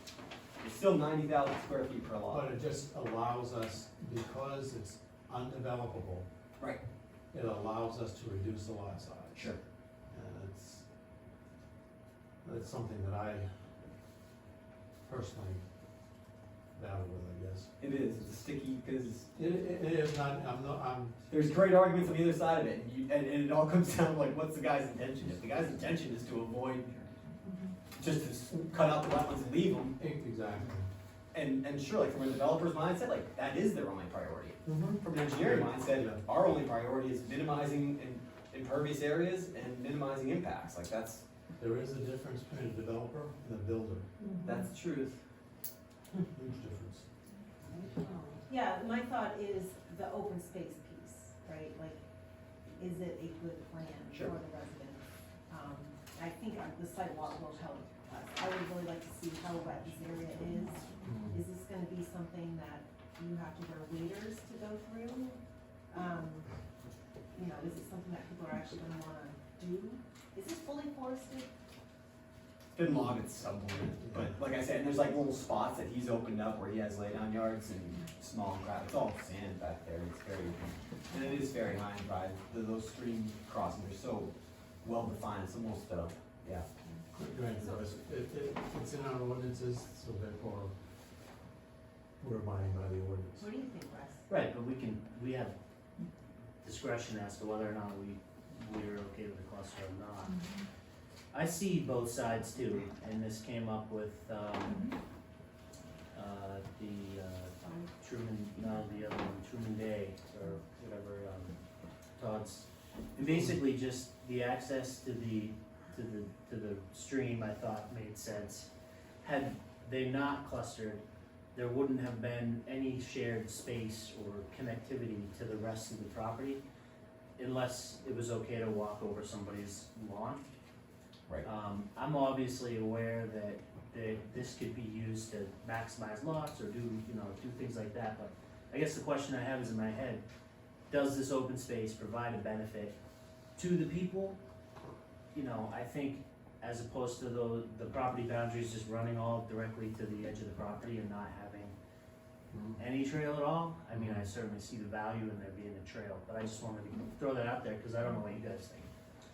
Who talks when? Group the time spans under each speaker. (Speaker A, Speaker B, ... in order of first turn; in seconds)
Speaker A: 0.6-2.4, 9.3-9.6, 17.8-19.3, 21.3-27.2, 27.9-29.9, 31.3-41.2, 44.4-45.1, 72.7-86.7
Speaker B: 2.3-6.3, 7.3-9.4, 10.1-10.8, 12.4-13.5, 15.1-15.6, 16.7-17.7, 19.4-21.1, 30.0-30.9, 34.6-36.2, 41.6-44.1, 46.3-47.0, 61.0-61.4, 87.1-90.7, 92.2-93.5, 152.5-152.8
Speaker C: 27.4-27.7, 48.4-52.0, 52.7-65.4, 65.9-66.5, 67.3-71.5, 93.4-94.2
Speaker D: 94.3-95.5, 96.6-100.3, 101.3-104.9, 106.1-111.5, 112.2-118.7, 119.2-121.0, 121.5-126.6, 127.4-130.4, 131.4-140.2, 140.9-142.9, 143.6-144.4, 145.3-151.7, 152.8-158.9